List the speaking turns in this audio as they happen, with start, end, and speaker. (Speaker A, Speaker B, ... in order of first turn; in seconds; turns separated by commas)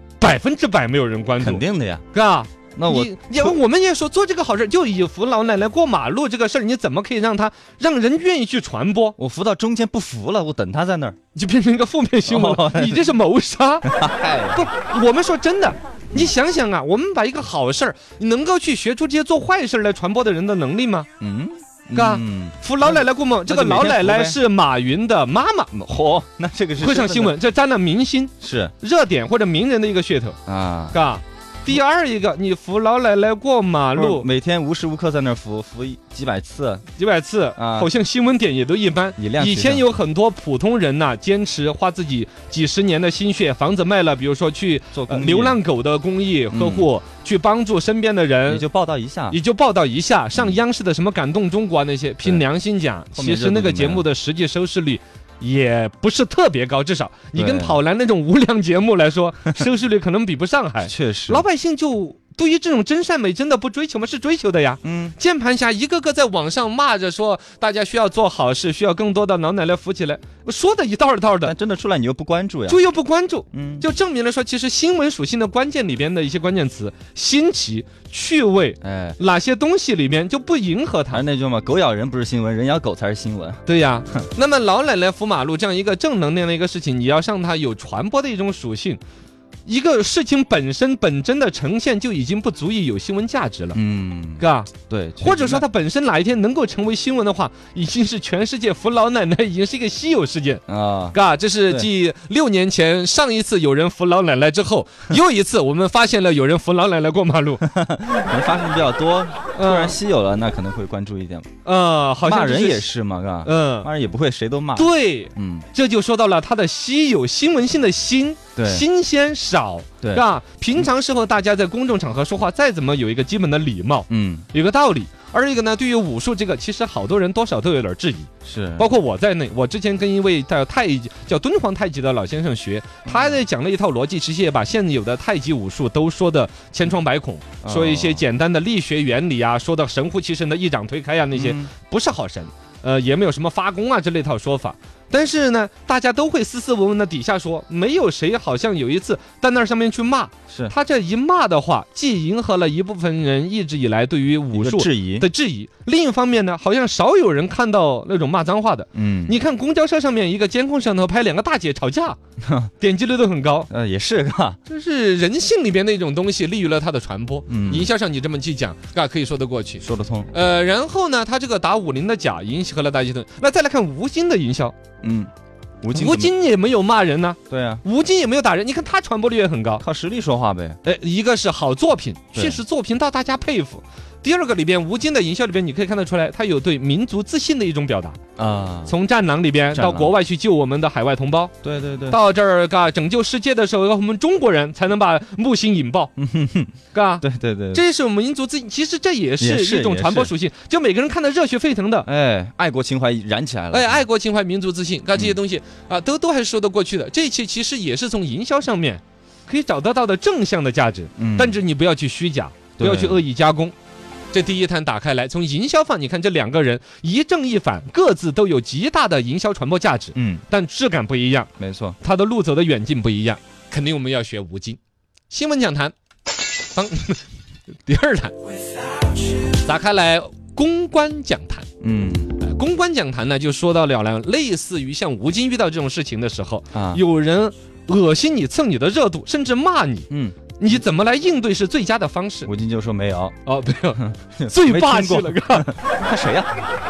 Speaker A: 0.2-9.2, Speaker B: 1.4-2.0, Speaker B: 2.8-3.6, Speaker B: 9.2-11.2, Speaker A: 11.3-13.9, Speaker B: 12.3-13.2, Speaker B: 13.8-14.6, Speaker A: 14.5-21.1, Speaker B: 21.2-24.4, Speaker A: 21.9-25.7, Speaker B: 25.7-27.4, Speaker A: 26.8-30.4, Speaker B: 28.4-28.7, Speaker B: 30.4-31.0, Speaker A: 30.9-34.3, Speaker B: 33.9-36.8, Speaker A: 37.0-48.6, Speaker B: 37.5-37.9, Speaker B: 39.2-40.0, Speaker B: 44.9-45.6, Speaker B: 46.5-46.9, Speaker B: 48.5-49.4, Speaker A: 49.3-71.5, Speaker B: 53.1-54.0, Speaker B: 57.3-57.8, Speaker B: 60.8-61.4, Speaker B: 64.8-65.2, Speaker B: 71.4-72.8, Speaker A: 72.7-81.2, Speaker B: 73.5-73.8, Speaker B: 78.8-79.2, Speaker B: 81.1-83.6, Speaker A: 83.7-89.0, Speaker A: 89.7-93.8, Speaker B: 93.7-95.6, Speaker A: 94.4-100.6, Speaker B: 100.7-101.1, Speaker A: 101.1-107.6, Speaker B: 107.6-111.5, Speaker A: 109.5-110.0, Speaker A: 111.6-112.9, Speaker B: 112.2-115.7, Speaker A: 113.4-113.9, Speaker A: 114.8-162.2, Speaker B: 118.5-118.8, Speaker B: 124.1-124.5, Speaker B: 128.4-128.9, Speaker B: 133.1-133.4, Speaker B: 137.6-138.2, Speaker B: 141.3-141.7, Speaker B: 154.5-155.2, Speaker B: 158.9-159.3, Speaker B: 162.4-162.7, Speaker A: 162.8-163.7, Speaker B: 163.7-164.6, Speaker A: 164.7-174.7, Speaker B: 167.5-167.9, Speaker B: 169.8-170.3, Speaker B: 175.0-175.3, Speaker B: 175.8-176.3, Speaker A: 175.9-179.8, Speaker B: 177.5-177.8, Speaker B: 179.8-180.8, Speaker A: 180.8-188.2, Speaker B: 182.3-182.6, Speaker B: 188.4-188.9, Speaker A: 188.9-191.5, Speaker B: 189.7-190.1, Speaker B: 191.6-192.2, Speaker A: 192.1-196.1, Speaker B: 196.2-197.8, Speaker A: 196.9-202.1, Speaker B: 199.4-200.3, Speaker B: 202.0-204.0, Speaker A: 203.7-213.7, Speaker B: 211.2-211.6, Speaker B: 212.8-213.2, Speaker A: 214.3-221.5, Speaker B: 220.1-220.4, Speaker B: 221.6-222.0, Speaker A: 222.0-224.8, Speaker A: 225.3-225.9, Speaker A: 226.7-227.2, Speaker A: 227.8-228.3, Speaker A: 229.5-231.7, Speaker B: 231.8-232.3, Speaker A: 232.3-240.1, Speaker B: 236.7-237.0, Speaker B: 240.1-240.4, Speaker A: 240.6-242.5, Speaker B: 242.4-243.4, Speaker A: 243.4-245.7, Speaker B: 243.9-246.5